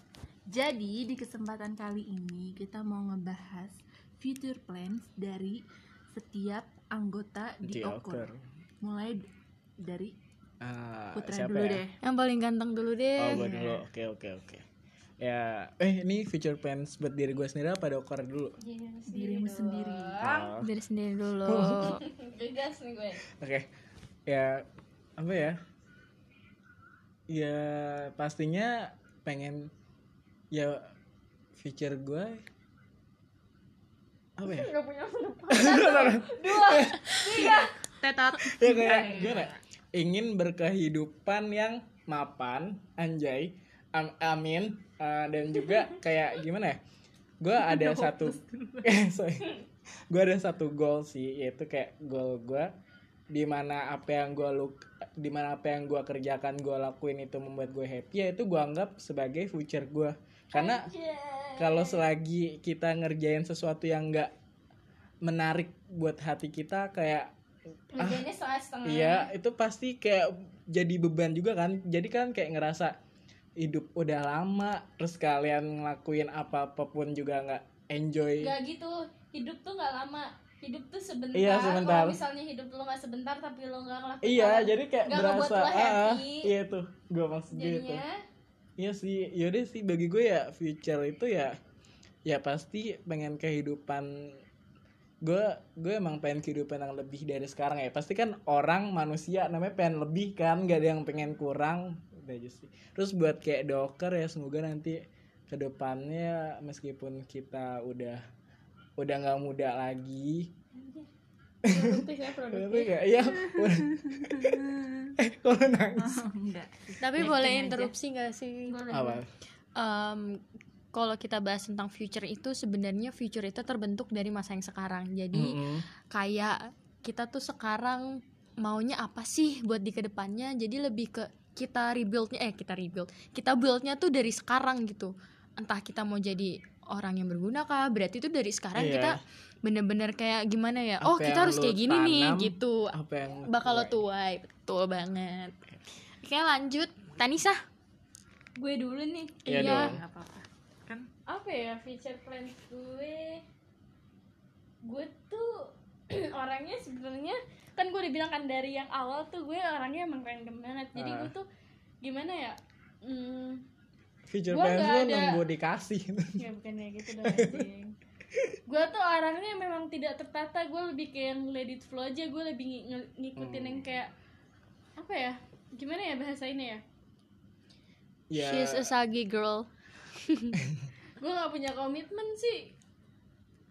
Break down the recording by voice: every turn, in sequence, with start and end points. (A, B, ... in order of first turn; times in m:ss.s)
0:00.5-0:05.6 A
0:06.1-0:08.3 A
0:07.6-0:08.4 B
0:08.8-0:09.3 A
0:09.8-0:10.1 A
0:10.6-0:11.8 B
0:11.1-0:12.0 A
0:12.0-0:13.5 C
0:13.2-0:14.6 B
0:13.4-0:13.8 A
0:15.2-0:18.6 B
0:18.6-0:20.5 D
0:19.1-0:20.2 A
0:20.2-0:20.7 B
0:20.6-0:22.0 C
0:21.4-0:22.0 B
0:21.8-0:23.2 D
0:23.3-0:23.7 B
0:24.2-0:24.6 B
0:25.2-0:25.6 B
0:27.3-0:29.7 B
0:30.5-0:30.8 B
0:31.6-0:32.4 B
0:34.4-0:34.7 B
0:34.4-0:36.2 C
0:35.5-0:37.5 B
0:36.0-0:37.7 D
0:37.3-0:39.6 A
0:38.4-0:46.8 B
0:47.4-0:49.6 B
0:47.6-0:48.9 A
0:50.1-0:52.7 B
0:53.3-1:00.9 B
1:00.5-1:02.0 D
1:01.6-1:04.3 B
1:05.2-1:07.3 B
1:07.9-1:09.3 D
1:08.0-1:08.2 B
1:08.8-1:13.0 B
1:13.6-1:18.5 B
1:18.4-1:26.5 D
1:21.3-1:22.2 B
1:24.2-1:28.0 B
1:27.5-1:28.2 D
1:28.8-1:31.6 B
1:32.2-1:34.4 B
1:35.2-1:48.2 B
1:49.0-1:50.5 B
1:51.6-1:56.2 B
1:51.6-1:53.0 D
1:53.8-1:55.1 A
1:56.0-1:57.9 A
1:57.0-1:58.8 C
1:58.7-1:59.2 D
1:58.9-1:59.3 B
1:59.8-2:00.4 C
2:00.9-2:25.5 C
2:05.3-2:05.8 B
2:18.7-2:19.2 B
2:21.0-2:24.0 B
2:26.2-2:27.6 C
2:28.6-2:29.7 D
2:29.4-2:30.0 B
2:29.5-2:29.9 C
2:29.5-2:31.1 A
2:31.3-2:33.4 D
2:34.8-2:41.4 D
2:41.0-2:41.3 B
2:42.0-2:43.6 D
2:44.3-2:46.4 B
2:44.5-2:45.4 D
2:46.4-2:47.9 D
2:47.2-2:47.6 B
2:48.7-2:54.1 D
2:53.4-2:54.0 B
2:55.0-2:56.8 D
2:58.3-2:58.9 B
2:58.3-2:59.7 C
3:00.2-3:00.5 C
3:01.2-3:02.7 D